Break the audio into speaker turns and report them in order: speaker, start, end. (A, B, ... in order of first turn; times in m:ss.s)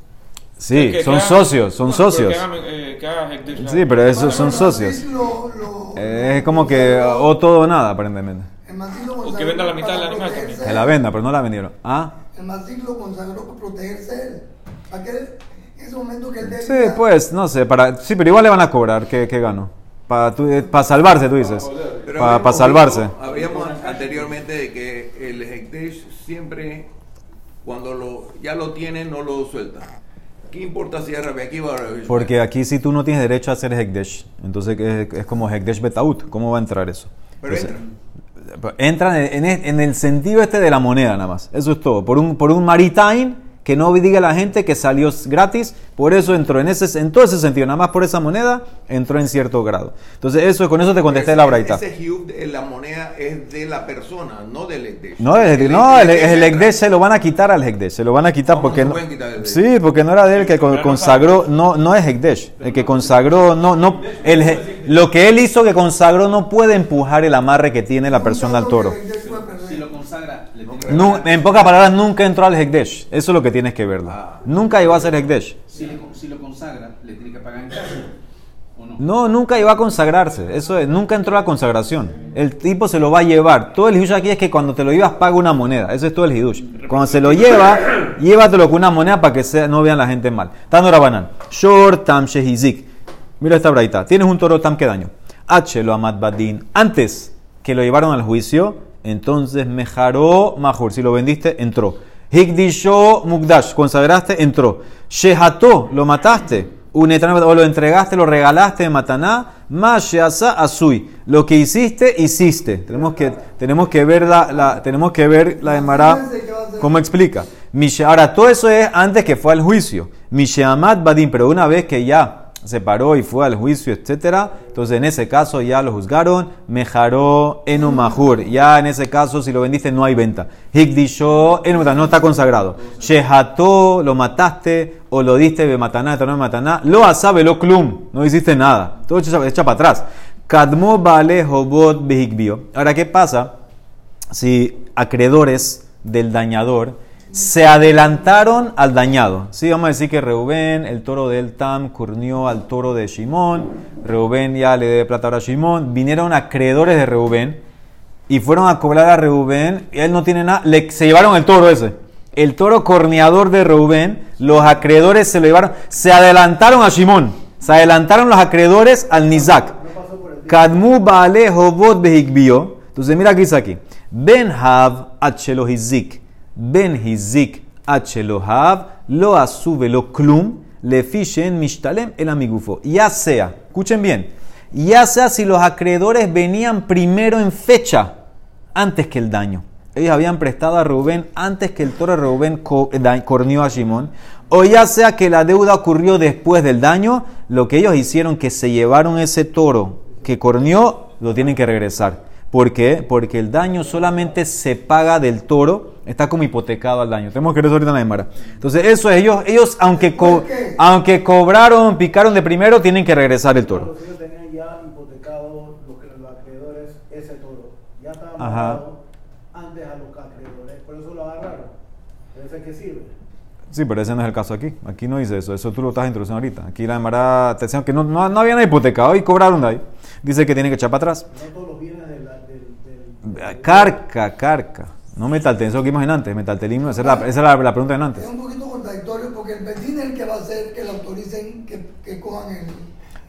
0:00.6-0:02.4 A
0:00.7-0:04.7 B
0:03.6-0:05.0 A
0:04.0-0:07.3 C
0:06.0-0:08.5 A
0:08.6-0:11.0 C
0:09.2-0:10.7 B
0:10.6-0:12.1 A
0:12.3-0:17.0 C
0:16.4-0:23.1 A
0:22.0-0:26.9 D
0:23.2-0:24.3 E
0:27.6-0:29.9 D
0:30.5-0:32.3 D
0:32.1-0:37.8 A
0:37.4-0:37.9 D
0:38.6-0:51.8 A
0:51.0-0:56.8 D
0:55.2-1:09.0 A
0:58.4-0:59.6 D
1:00.3-1:01.5 B
1:02.6-1:03.3 E
1:04.0-1:04.8 E
1:08.1-1:09.9 C
1:09.6-1:11.6 E
1:10.7-1:11.2 D
1:10.9-1:15.6 A
1:14.1-1:14.4 D
1:15.7-1:18.1 E
1:19.0-1:32.9 A
1:33.4-1:56.2 A
1:55.5-1:57.0 C
1:56.8-2:23.5 A
2:24.3-2:37.6 A
2:38.3-2:49.8 A
2:49.1-2:50.9 F
2:50.5-3:08.1 A
3:08.8-3:33.9 A
3:29.9-3:30.8 C
3:33.5-3:39.0 F
3:38.4-3:38.8 A
3:39.5-3:41.7 F
3:42.3-3:43.1 F
3:43.7-3:51.2 A
3:51.3-3:54.0 F
3:53.3-3:58.2 A
3:57.0-3:57.3 C
3:58.2-4:02.9 C